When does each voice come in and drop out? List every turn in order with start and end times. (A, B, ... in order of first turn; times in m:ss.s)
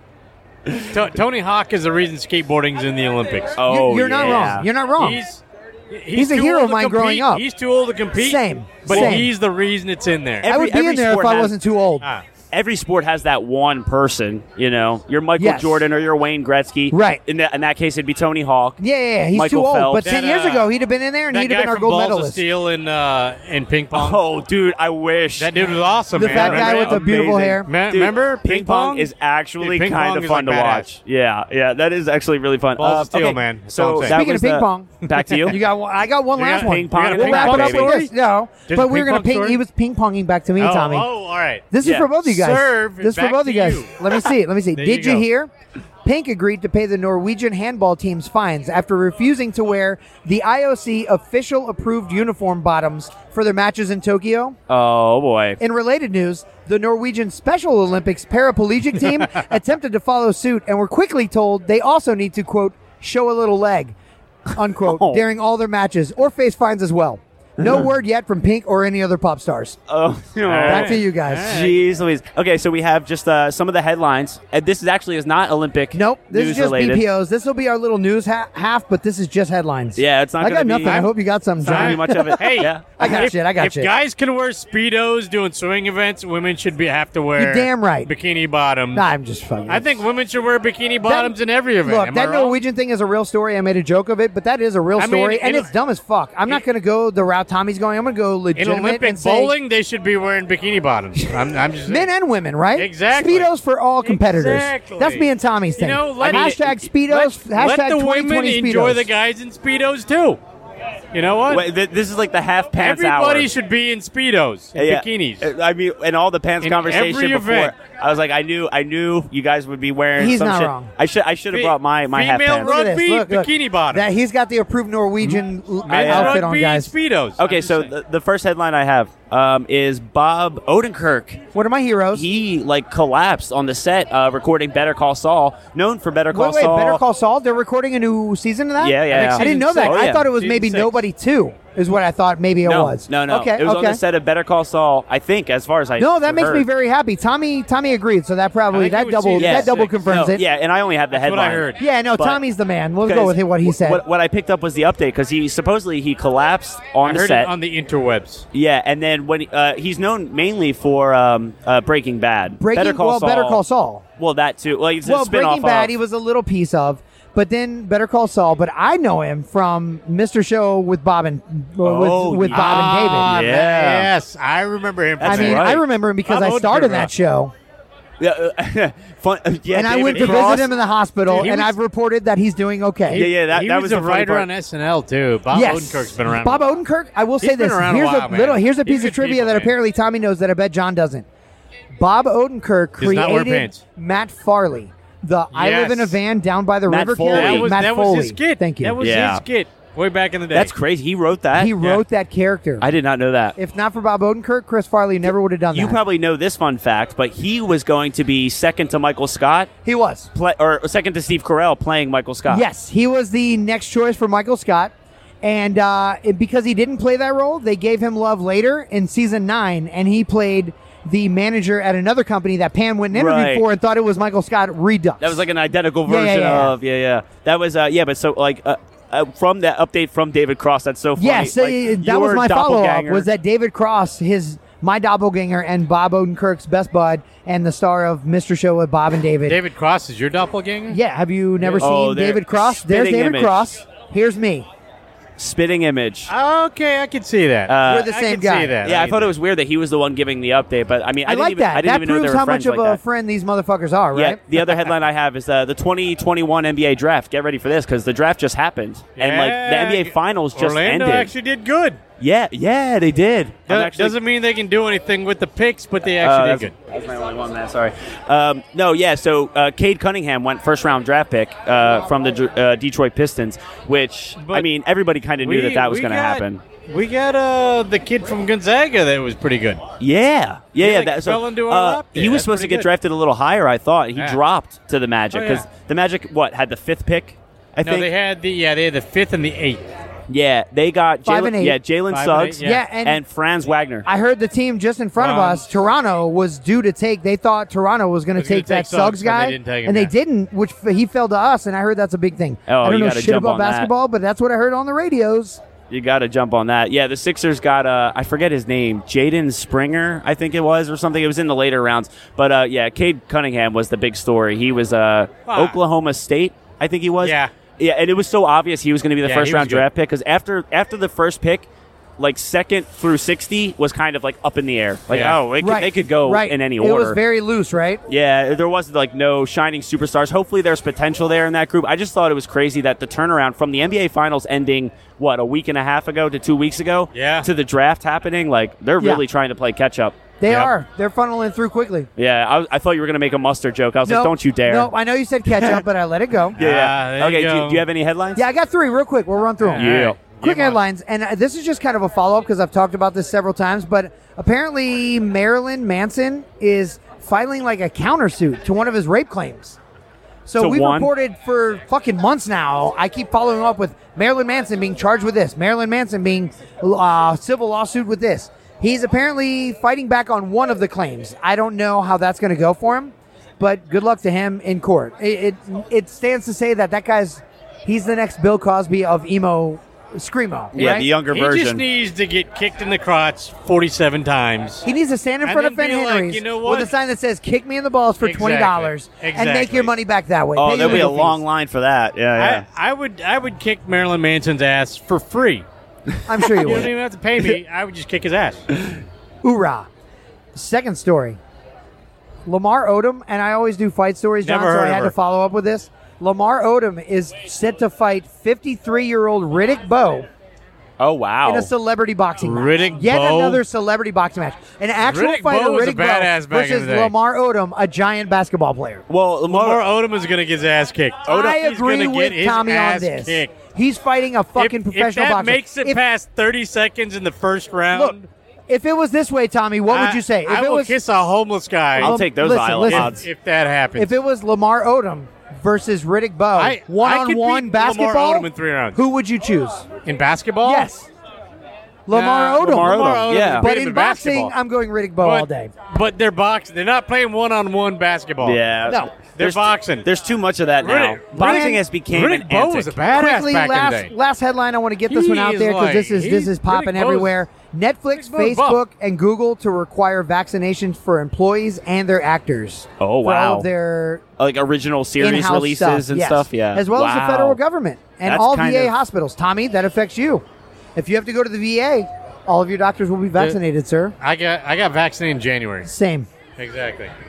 0:00.9-0:03.6 A
0:03.6-0:04.7 B
0:03.6-0:05.2 C
0:05.0-0:10.5 A
0:06.1-0:07.4 C
0:08.2-0:09.3 C
0:08.9-0:09.2 B
0:10.4-0:11.6 B
0:10.4-0:12.1 C
0:12.5-0:18.8 B
0:15.4-0:15.9 C
0:16.9-0:17.2 C
0:18.8-0:22.4 C
0:19.3-0:20.1 B
0:20.0-0:20.7 A
0:21.3-0:24.2 A
0:23.9-0:35.6 B
0:25.4-0:30.9 A
0:26.1-0:27.7 C
0:32.8-0:34.2 A
0:34.0-0:34.9 C
0:35.1-0:35.7 A
0:35.5-0:41.1 C
0:36.4-0:38.1 A
0:36.5-0:38.0 B
0:38.7-0:39.6 A
0:40.6-0:41.6 A
0:41.7-0:45.5 C
0:41.8-0:42.1 B
0:42.2-0:44.0 A
0:44.8-0:45.3 A
0:46.0-0:54.6 C
0:54.7-0:55.6 B
0:55.6-1:04.0 C
1:04.6-1:09.8 C
1:04.8-1:05.2 B
1:07.6-1:07.9 B
1:09.9-1:17.0 B
1:10.5-1:11.8 A
1:10.7-1:11.5 C
1:15.9-1:23.9 C
1:20.0-1:23.2 B
1:21.6-1:29.1 A
1:27.4-1:28.1 C
1:28.9-1:30.0 C
1:29.7-1:32.6 A
1:31.0-1:39.6 C
1:35.0-1:35.7 A
1:38.6-1:42.1 A
1:41.9-1:49.1 C
1:42.8-1:43.5 A
1:44.0-1:50.4 A
1:46.2-1:46.7 B
1:51.1-1:51.6 A
1:51.5-1:53.5 B
1:52.8-1:55.5 A
1:54.8-2:02.7 B
1:56.6-1:57.7 A
2:00.2-2:00.9 C
2:01.5-2:04.1 A
2:02.6-2:06.9 C
2:05.2-2:07.9 A
2:05.9-2:06.4 B
2:07.4-2:11.4 B
2:11.5-2:12.2 C
2:12.1-2:17.0 B
2:16.3-2:24.0 C
2:18.8-2:20.3 B
2:19.1-2:21.0 A
2:22.6-2:26.7 B
2:26.0-2:30.4 C
2:28.7-2:30.3 A
2:29.4-2:32.4 B
2:31.1-2:31.8 A
2:31.8-2:34.0 C
2:33.1-2:37.5 B
2:37.1-2:38.5 A
2:38.5-2:43.6 B
2:42.6-2:44.0 C
2:44.2-2:46.0 B
2:45.0-2:53.4 C
2:51.8-2:54.1 B
2:52.5-2:57.1 A
2:55.2-2:55.8 B
2:55.2-2:57.5 C
2:58.2-3:00.7 B
2:59.7-3:03.2 C
3:00.1-3:00.7 A
3:01.3-3:01.8 A
3:03.1-3:06.7 A
3:03.1-3:04.5 B
3:05.5-3:11.2 C
3:07.4-3:09.7 A
3:12.0-3:19.0 C
3:13.0-3:13.8 A
3:15.5-3:16.2 A
3:16.9-3:17.7 B
3:17.3-3:20.7 A
3:19.0-3:19.4 B
3:20.5-3:21.8 B
3:21.5-3:22.9 C
3:22.8-3:23.6 B
3:23.6-3:26.0 C
3:25.7-3:29.7 B
3:29.8-3:30.3 C
3:30.3-3:32.6 B
3:32.5-3:34.9 C
3:35.4-3:45.4 C
3:43.1-3:43.7 B
3:45.2-3:53.3 B
3:46.0-3:46.7 C
3:51.2-3:59.6 C
3:59.5-4:01.0 A
4:00.9-4:04.7 C
4:01.6-4:01.9 A
4:01.8-4:03.7 B
4:05.4-4:06.3 B
4:06.3-4:09.3 A
4:07.7-4:08.1 B
4:07.8-4:08.7 C
4:08.8-4:13.0 B
4:11.3-4:14.4 C
4:14.1-4:21.3 B
4:19.2-4:22.0 A
4:22.2-4:24.2 B
4:23.7-4:26.7 A
4:26.2-4:36.6 B
4:34.4-4:34.7 A
4:35.4-4:39.8 A
4:40.0-4:48.1 B
4:40.8-4:42.9 A
4:45.3-4:45.6 A
4:47.8-4:49.8 A
4:50.3-4:54.1 B
4:51.2-4:51.8 C
4:52.1-4:52.8 A
4:52.6-4:53.2 C
4:54.0-5:05.6 C
4:55.2-4:55.7 A
4:58.4-5:00.1 A
5:02.7-5:03.9 B
5:05.9-5:27.2 B
5:15.5-5:15.8 A
5:17.2-5:17.5 A
5:19.2-5:19.9 A
5:25.1-5:25.4 A
5:25.6-5:28.0 C
5:28.1-5:40.2 B
5:37.1-5:37.5 A
5:40.4-5:42.1 C
5:40.5-5:40.7 A
5:42.2-5:44.9 B
5:44.1-5:46.6 C
5:46.6-5:47.8 A
5:46.6-5:48.4 B
5:48.4-5:49.9 C
5:49.6-5:50.8 A
5:49.8-5:50.2 B
5:50.4-5:59.8 C
6:00.5-6:21.1 C
6:00.6-6:01.1 B
6:20.7-6:21.8 B
6:20.8-6:24.8 A
6:24.8-6:31.4 C
6:25.4-6:26.9 A
6:28.2-6:29.9 A
6:30.6-6:32.6 B
6:30.8-6:31.2 A
6:32.4-6:35.7 A
6:36.3-6:36.9 C
6:36.6-6:38.7 A
6:39.4-6:39.9 C
6:40.6-6:41.4 C
6:42.5-6:50.3 C
6:44.4-6:45.1 A
6:51.0-6:51.7 B
6:51.4-6:59.0 C
6:52.4-6:53.6 A
6:55.1-6:57.1 A
6:59.1-6:59.8 B
6:59.5-7:03.5 A
7:01.3-7:06.0 C
7:04.6-7:08.3 A
7:07.9-7:08.2 C
7:08.7-7:11.0 C
7:09.9-7:12.2 A
7:12.0-7:13.2 B
7:12.0-7:13.2 C
7:12.8-7:14.1 A
7:14.0-7:19.9 C
7:16.6-7:19.0 A
7:20.1-7:20.9 A
7:20.6-7:21.1 C
7:22.1-7:23.0 C
7:22.1-7:24.6 A
7:22.6-7:23.7 B
7:23.6-7:25.7 C
7:25.2-7:28.6 A
7:28.4-7:33.0 B
7:28.9-7:29.1 C
7:29.4-7:30.1 A
7:30.8-7:34.1 A
7:31.4-7:31.8 C
7:33.1-7:44.2 C
7:35.1-7:37.4 A
7:38.1-7:38.8 A
7:43.0-7:43.7 B
7:44.4-7:47.6 B
7:45.2-7:50.4 C
7:48.2-7:49.0 B
7:51.0-7:54.2 C
7:54.2-7:55.9 A
7:55.8-7:56.3 C
7:56.6-7:57.1 A